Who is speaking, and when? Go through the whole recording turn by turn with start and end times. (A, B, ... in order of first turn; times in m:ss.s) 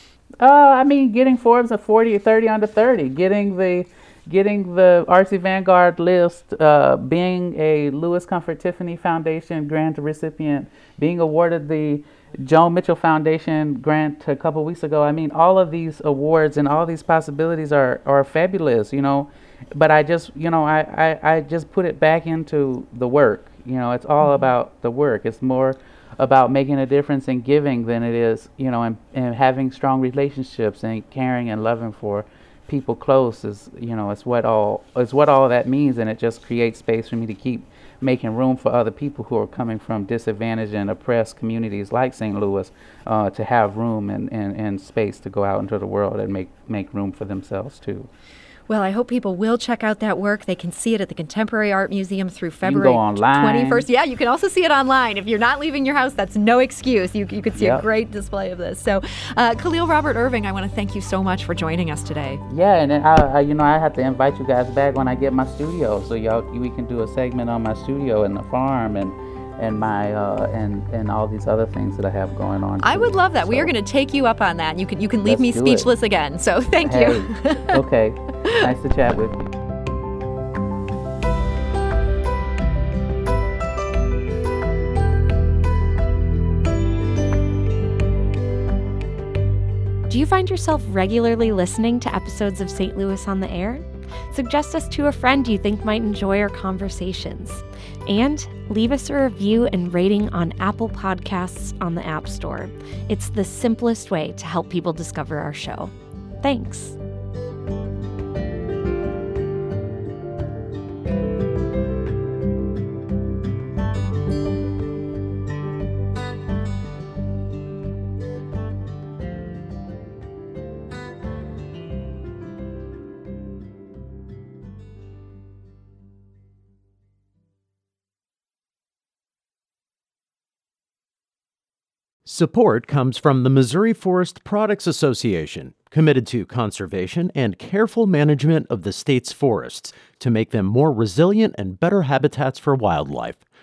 0:00.4-0:48.1 A
0:48.7-1:02.4 B
0:52.6-0:53.8 A
0:57.5-0:57.8 A
1:02.5-1:13.7 A
1:12.8-1:17.7 B
1:15.2-1:15.9 A
1:16.8-1:19.5 A
1:30.1-1:47.0 C
2:12.2-2:23.4 D